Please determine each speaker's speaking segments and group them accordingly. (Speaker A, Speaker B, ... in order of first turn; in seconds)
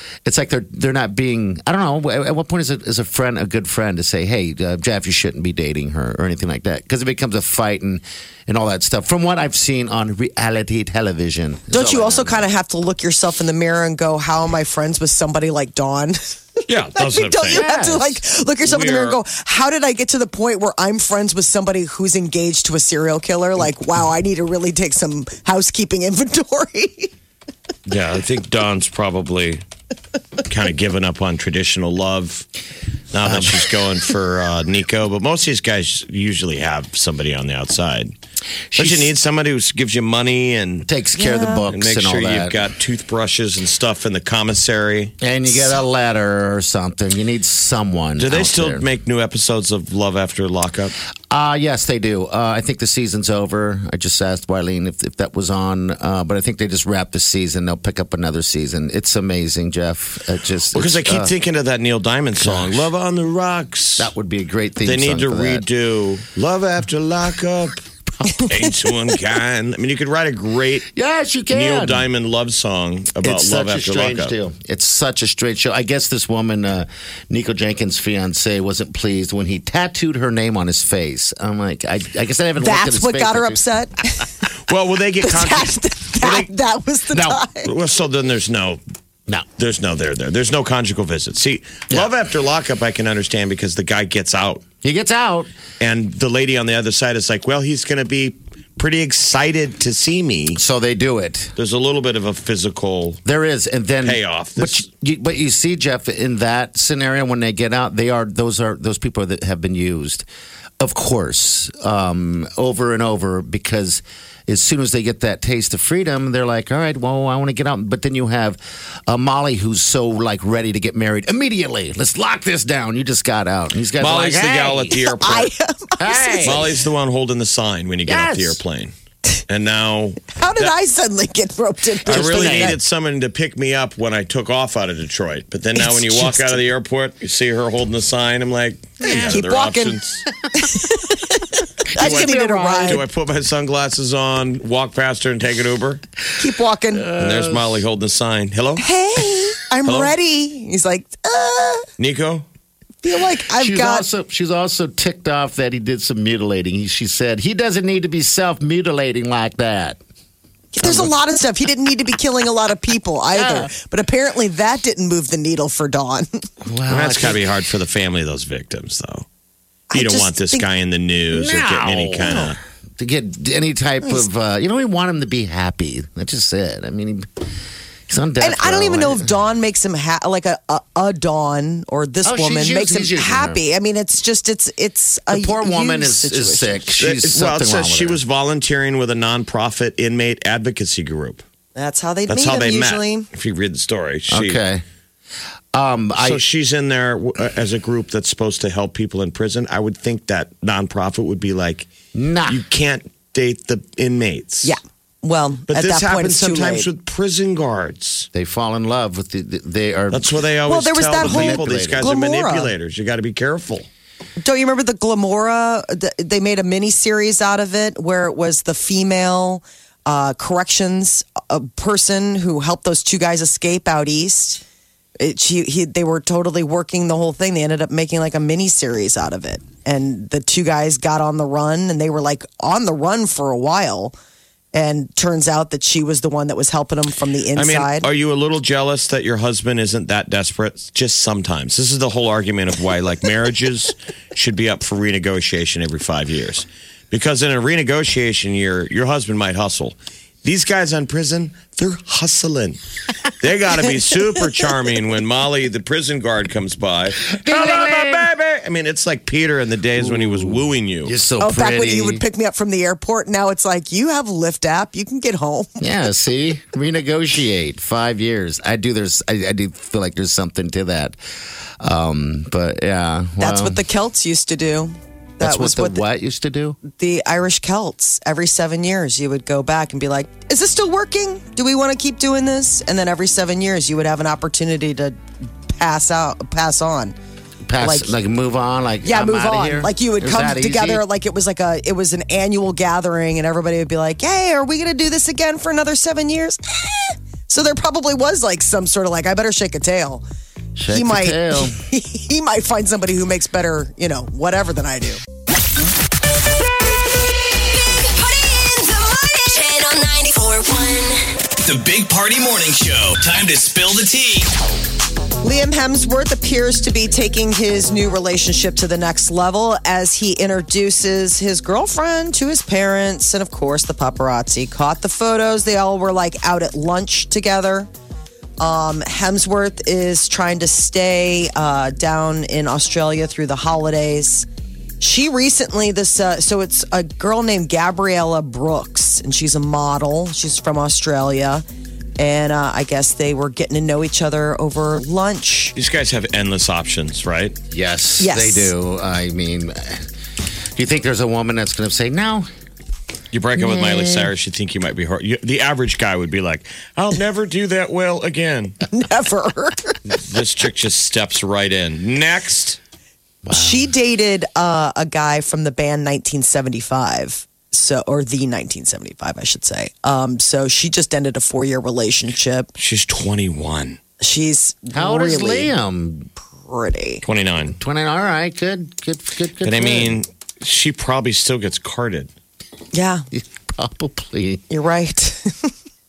Speaker A: 0.2-12.4, 17.5-18.2, 33.2-33.6, 38.7-39.1, 40.9-42.6, 45.2-48.9, 51.3-61.3, 62.4-62.9, 64.0-65.7, 70.9-72.1, 73.2-83.6, 87.1-87.4, 94.8-95.5, 100.5-101.5, 103.2-110.3, 110.8-125.0, 126.0-126.7, 128.1-128.6, 132.1-132.8, 139.0-139.4, 141.9-143.0, 147.0-147.8, 153.5-160.0, 160.8-161.1, 163.3-163.7, 166.7-167.4, 171.3-177.3, 178.1-179.3, 182.2-183.6, 185.3-188.2, 194.3-194.8, 195.7-196.4, 202.1-202.6, 208.3-210.3, 211.2-212.1, 257.4-258.3, 260.0-262.2, 265.8-271.2, 271.8-273.8, 275.4-276.8, 287.7-291.0, 300.8-301.8, 347.7-350.1, 350.8-352.5, 353.6-354.3, 363.4-363.9, 374.9-376.3, 377.8-380.2, 383.3-384.6
Speaker B: 11.7-27.1, 41.2-41.6, 82.6-84.3, 85.2-87.7, 124.9-126.7, 130.3-132.8, 135.9-136.5, 139.0-140.0, 140.6-143.0, 146.4-147.1, 148.8-151.9, 153.0-154.1, 160.7-166.5, 169.9-170.7, 178.4-186.9, 191.8-193.3, 204.6-206.9, 210.7-212.7, 214.4-224.6, 225.2-234.1, 234.7-238.1, 261.4-265.8, 273.4-276.1, 276.9-285.1, 285.7-287.1, 287.8-288.2, 289.0-300.2, 300.9-305.2, 315.4-327.9, 328.6-334.5, 335.0-341.6, 342.2-345.8, 348.2-348.7, 358.9-360.0, 363.5-372.7, 374.2-375.7, 376.6-377.2, 382.9-383.2, 384.7-385.5
Speaker C: 16.7-17.7, 18.6-19.2, 27.9-29.6, 30.5-32.5, 33.1-38.1, 38.8-40.9, 41.7-45.1, 48.2-51.0, 60.7-64.1, 64.8-67.8, 68.5-70.9, 71.5-74.3, 84.7-86.5, 87.6-88.8, 89.6-94.6, 95.8-100.6, 101.6-103.2, 104.0-104.8, 124.0-125.5, 126.4-128.9, 129.5-130.7, 132.1-140.2, 141.9-146.0, 147.2-148.9, 149.8-150.2, 152.0-152.5, 166.9-169.2, 169.9-172.6, 187.0-191.4, 192.3-194.6, 196.2-201.9, 202.5-204.8, 205.7-208.3, 210.1-213.9, 237.6-252.8, 253.3-261.1, 345.8-347.6, 353.3-358.8, 360.1-362.8, 372.8-374.0, 377.2-377.8, 379.6-382.3
Speaker D: 308.4-311.1
Speaker E: 311.6-314.5